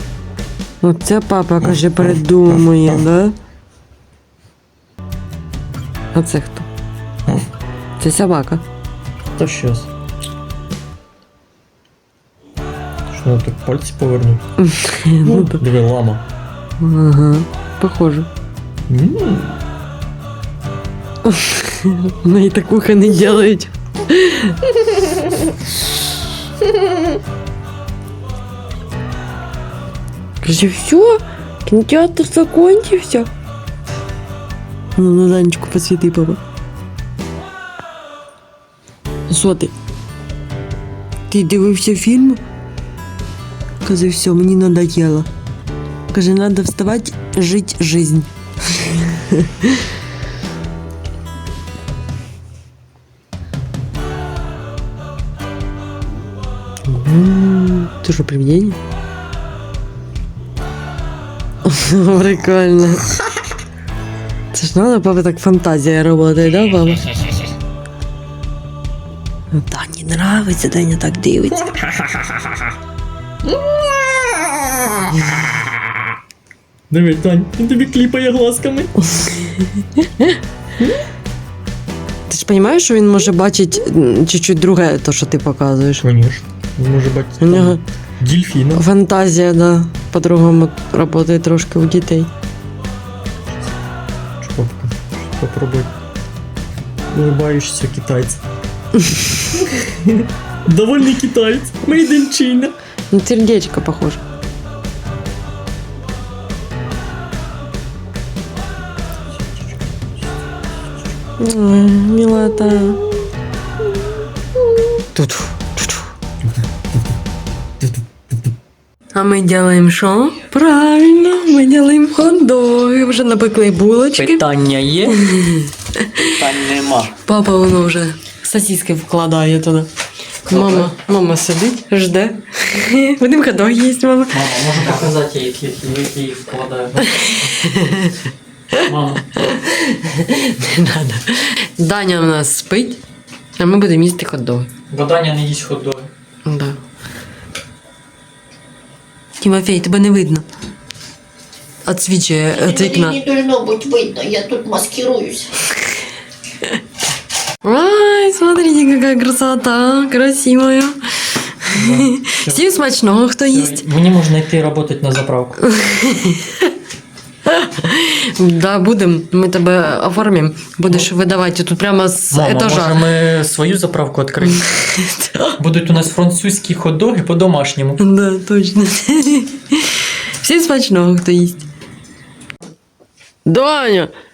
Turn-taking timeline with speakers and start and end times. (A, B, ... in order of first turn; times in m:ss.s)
0:00.8-0:03.4 A
0:06.1-0:06.7 A
0:08.0-0:08.6 A
0:09.4-0:09.9 B
0:13.1-0:14.4 B
0:14.6-0:15.6 A
0:15.2-0:16.2 B
0:16.8-0:18.3 A
0:18.9-0:19.6 B
0:21.2-0:25.2 A
0:30.4-0:33.3 A
0:35.0-0:36.4 A
0:39.3-0:39.7 A
0:41.3-0:42.4 A
0:43.8-0:45.3 A
0:46.1-0:49.7 A
0:56.9-0:58.8 A
1:01.6-1:03.0 A
1:04.5-1:07.2 A
1:09.5-1:11.7 A
1:12.0-1:12.4 B
1:14.2-1:14.6 B
1:16.9-1:18.9 B
1:19.1-1:20.4 A
1:22.3-1:26.0 A
1:26.0-1:28.8 B
1:27.4-1:27.8 A
1:28.7-1:32.3 A
1:34.4-1:35.9 B
1:37.1-1:38.4 B
1:39.6-1:42.7 B
1:43.1-1:44.2 A
1:51.4-1:53.0 A
1:55.1-1:56.1 A
1:59.1-2:04.4 A
2:04.2-2:05.2 B
2:05.1-2:06.3 A
2:06.3-2:07.1 B
2:07.2-2:09.9 A
2:10.5-2:10.9 B
2:10.5-2:14.4 A
2:14.3-2:17.1 B
2:17.0-2:18.2 A
2:18.8-2:19.2 B
2:18.8-2:23.0 A
2:23.6-2:24.7 A
2:24.9-2:26.1 B
2:26.4-2:26.8 A
2:29.4-2:30.4 A
2:31.8-2:33.2 A
2:32.6-2:35.5 C
2:37.6-2:41.0 A
2:41.6-2:43.8 A
2:41.7-2:42.6 B
2:43.4-2:45.6 B
2:45.6-2:46.7 A
2:47.5-2:53.0 A
2:52.3-2:54.7 B
2:54.4-2:55.6 A
2:55.6-2:58.0 B
2:58.0-3:01.7 A
3:03.5-3:04.1 A